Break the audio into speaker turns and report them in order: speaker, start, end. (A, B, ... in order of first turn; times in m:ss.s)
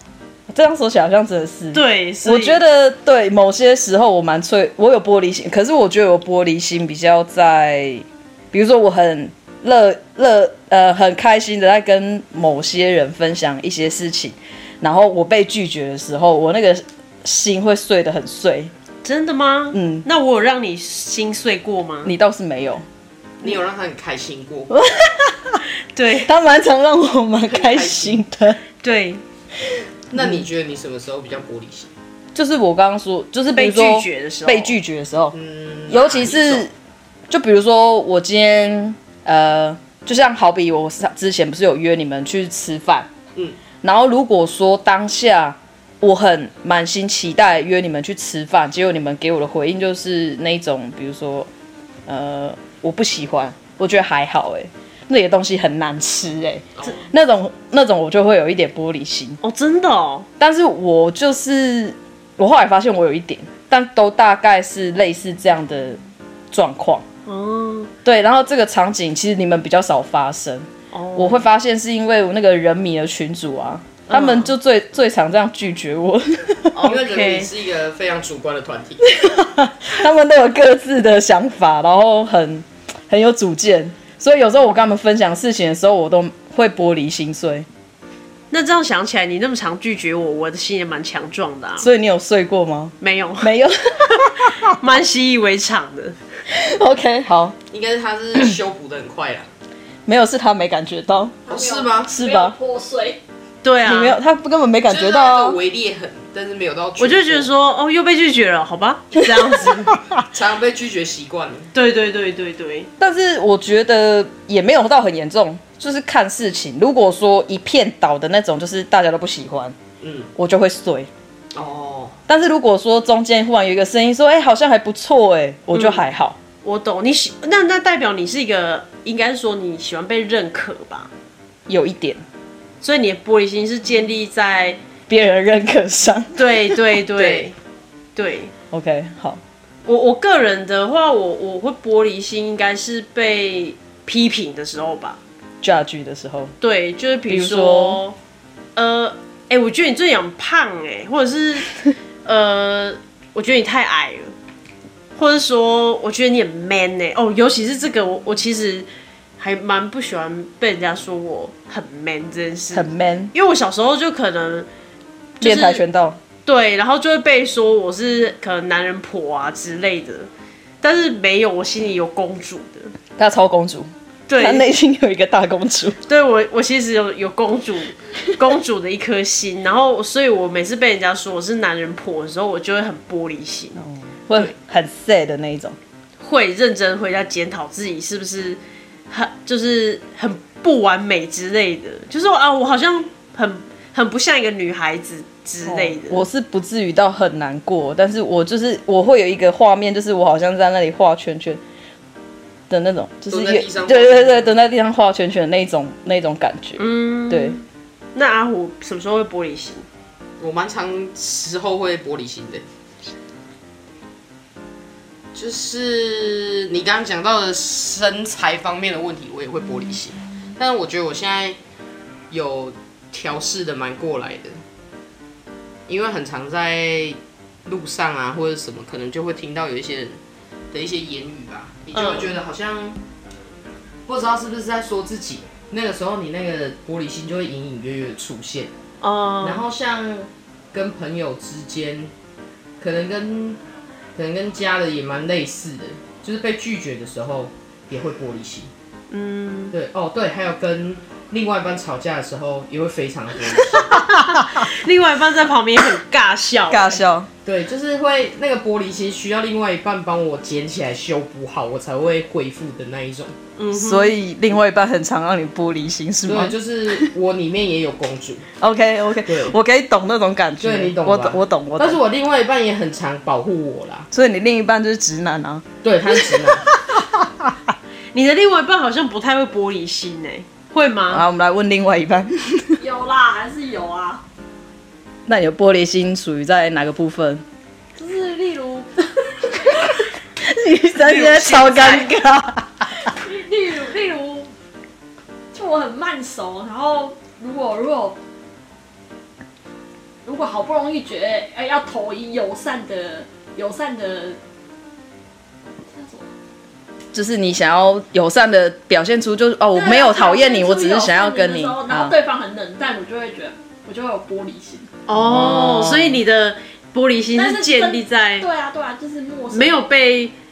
0:00.5-0:18.7 A
0:01.7-0:02.6 B
0:19.0-0:22.1 B
0:19.7-0:20.0 A
0:22.0-0:22.8 A
0:23.4-0:24.7 C
0:24.7-0:25.6 A
0:25.9-0:26.3 B
0:26.2-0:28.6 A
0:27.5-0:28.2 C
0:28.8-0:29.2 B
0:30.1-0:31.9 C
0:30.1-0:30.4 A
0:32.3-0:35.4 A
0:33.5-0:34.8 B
0:35.3-0:36.6 C
0:35.9-0:36.7 A
0:37.3-0:43.1 A
0:43.8-0:51.5 A
0:52.1-0:59.4 A
0:56.8-0:57.1 C
0:59.4-1:00.3 B
1:00.4-1:06.0 A
1:06.5-1:07.0 A
1:07.2-1:07.9 B
1:08.0-1:16.8 A
1:10.9-1:11.4 B
1:14.1-1:14.5 B
1:16.7-1:17.5 B
1:16.8-1:19.0 C
1:19.0-1:27.6 A
1:28.5-1:31.9 B
1:31.8-1:34.7 A
1:33.0-1:33.5 B
1:34.1-1:36.2 B
1:36.5-1:37.6 A
1:37.7-1:39.5 C
1:40.0-1:41.5 A
1:41.4-1:43.2 D
1:41.5-1:42.1 C
1:42.0-1:42.5 A
1:43.6-1:44.2 B
1:43.8-1:45.6 A
1:44.9-1:47.5 C
1:47.0-1:49.9 B
1:49.3-1:50.2 A
1:50.3-1:51.7 C
1:51.7-1:52.9 B
1:53.0-1:59.8 A
2:00.0-2:00.3 C
2:00.4-2:01.1 A
2:01.5-2:02.2 C
2:02.3-2:06.4 A
2:05.7-2:06.0 B
2:06.6-2:11.1 B
2:11.7-2:12.2 A
2:12.8-2:14.8 B
2:15.1-2:16.8 A
2:16.4-2:17.5 B
2:17.2-2:17.5 C
2:18.2-2:18.5 B
2:18.7-2:19.4 A
2:19.8-2:25.2 B
2:25.6-2:26.5 A
2:26.6-2:28.2 B
2:27.3-2:28.0 A
2:28.8-2:31.7 B
2:32.2-2:34.3 B
2:35.2-2:38.9 B
2:39.4-2:44.7 B
2:42.7-2:43.3 A
2:45.4-2:45.8 B
2:45.4-2:46.2 A
2:46.4-2:50.3 B
2:50.8-2:52.9 B
2:53.2-2:56.0 A
2:54.3-2:54.6 B
2:56.1-3:03.8 B
3:03.8-3:05.8 A
3:06.2-3:08.6 B
3:09.1-3:16.2 B
3:15.6-3:21.6 A
3:22.7-3:27.6 A
3:23.3-3:24.5 C
3:26.8-3:27.6 B
3:28.1-3:29.8 B
3:30.4-3:32.6 C
3:35.3-3:41.6 C
3:42.3-3:44.6 C
3:45.9-3:50.2 C
3:50.7-3:53.0 C
3:51.9-3:52.3 B
3:54.1-3:58.7 C
3:59.0-3:59.6 B
3:59.4-4:02.1 C
4:02.8-4:03.6 C
4:04.2-4:08.7 C
4:09.1-4:09.7 B
4:09.7-4:14.0 C
4:14.1-4:17.0 B
4:16.7-4:17.3 A
4:17.4-4:23.4 C
4:23.6-4:24.1 B
4:23.7-4:27.1 A
4:26.3-4:28.4 C
4:28.6-4:32.0 A
4:29.3-4:29.5 C
4:30.6-4:34.1 C
4:34.1-4:37.6 A
4:35.8-4:36.7 C
4:38.1-4:41.2 B
4:41.1-4:42.8 A
4:42.8-4:44.2 D
4:45.3-4:47.4 A
4:48.0-4:49.9 D
4:50.4-4:52.8 A
4:51.0-4:52.1 B
4:53.0-4:54.5 D
4:55.5-4:58.2 D
5:00.2-5:04.4 D
5:05.8-5:06.3 D
5:07.1-5:12.1 A
5:09.7-5:14.9 D
5:15.1-5:18.5 B
5:15.1-5:16.2 A
5:17.3-5:19.8 D
5:19.5-5:20.3 B